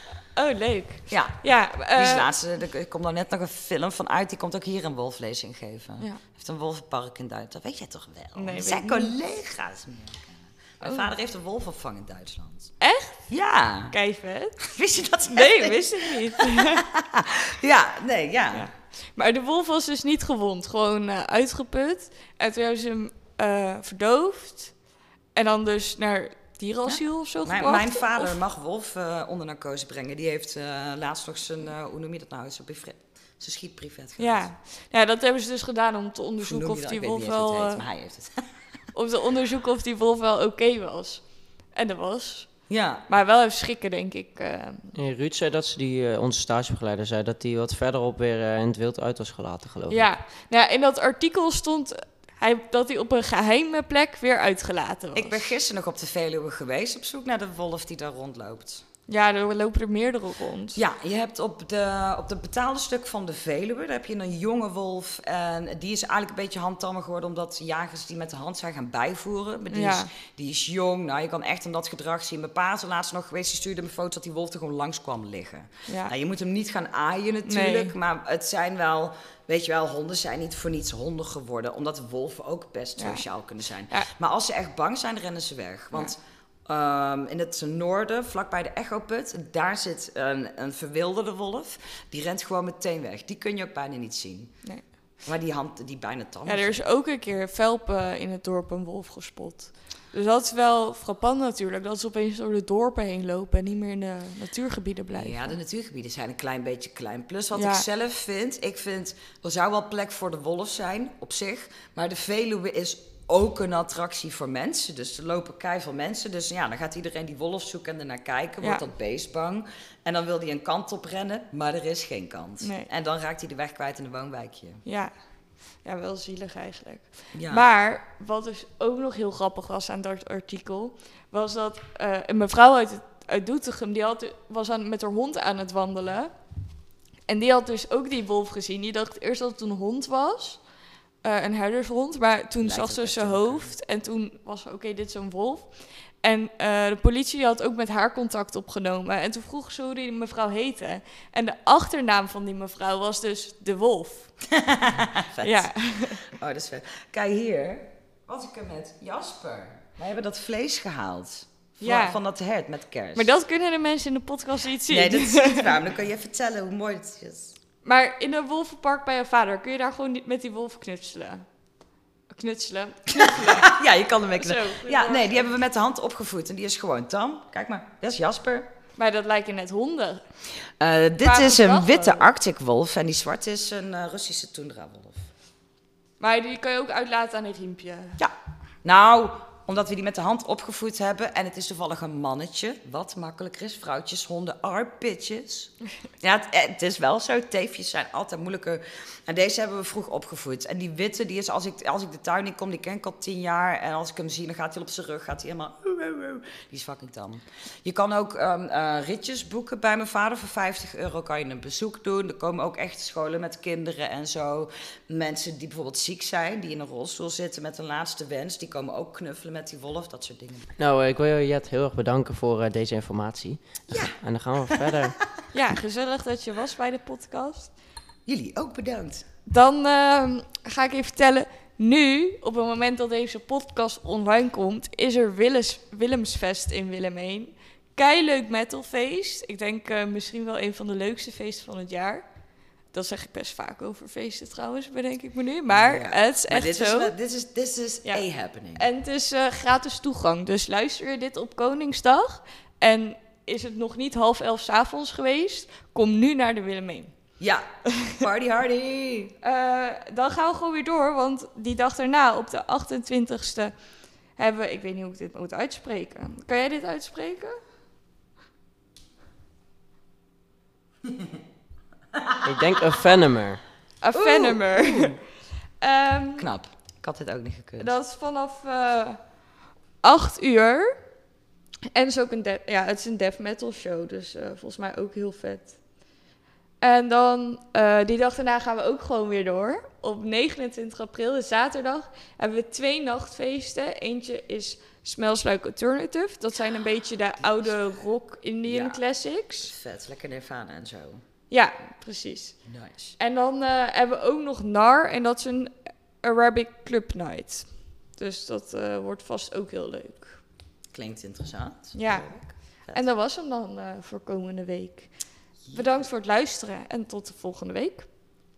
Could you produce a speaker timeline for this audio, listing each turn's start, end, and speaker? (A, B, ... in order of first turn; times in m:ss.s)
0:00.3-0:02.3 A
0:01.1-0:12.7 B
0:08.4-0:09.1 A
0:10.8-0:11.1 A
0:12.8-0:13.2 A
0:13.3-0:13.9 B
0:13.9-0:14.6 A
0:14.6-0:18.7 B
0:15.3-0:16.8 A
0:18.5-0:24.8 A
0:25.3-0:28.3 A
0:26.8-0:34.5 B
0:34.2-0:37.8 A
0:36.4-0:38.4 B
0:38.9-0:44.9 A
0:42.7-0:43.0 B
0:44.9-0:50.1 C
0:49.9-0:55.5 A
0:55.1-0:58.8 B
0:59.1-1:00.8 A
1:00.8-1:34.6 B
1:09.7-1:10.1 A
1:15.9-1:16.1 A
1:17.4-1:17.9 A
1:23.0-1:23.2 A
1:35.2-1:36.8 B
1:36.4-1:45.5 A
1:45.1-2:04.8 B
1:47.5-1:47.8 A
2:02.6-2:02.9 A
2:04.8-2:05.1 A
2:05.8-2:16.4 A
2:07.3-2:07.7 B
2:17.3-2:20.7 A
2:21.2-2:34.4 A
2:22.6-2:23.8 B
2:34.5-2:43.3 B
2:35.4-2:36.2 A
2:41.8-2:42.2 A
2:43.1-2:45.7 A
2:44.9-2:47.6 B
2:47.8-2:51.4 A
2:52.3-2:53.8 A
2:53.2-2:58.7 B
2:54.3-2:55.5 A
2:59.0-3:00.3 A
3:00.8-3:05.3 B
3:01.2-3:02.3 A
3:06.2-3:08.2 A
3:08.2-3:40.7 B
3:40.8-3:45.2 C
3:43.9-3:45.0 B
3:45.5-3:47.7 A
3:48.2-3:49.2 B
3:49.5-4:02.2 A
4:02.9-4:07.1 A
4:05.7-4:08.8 B
4:08.7-4:17.1 A
4:17.4-4:19.3 B
4:19.4-4:23.8 A
4:24.3-4:27.6 A
4:32.4-4:33.6 C
4:34.0-4:35.2 A
4:34.1-4:35.2 B
4:35.8-4:36.5 A
4:36.4-4:37.9 B
4:37.8-4:39.3 A
4:40.0-4:41.0 A
4:41.9-4:45.8 A
4:46.8-4:59.7 A
4:58.6-4:59.0 B
4:59.6-5:01.2 B
5:01.5-5:02.6 A
5:02.6-5:03.1 B
5:03.2-5:10.4 A
5:10.9-5:13.0 B
5:11.9-5:18.1 A
5:15.6-5:16.1 B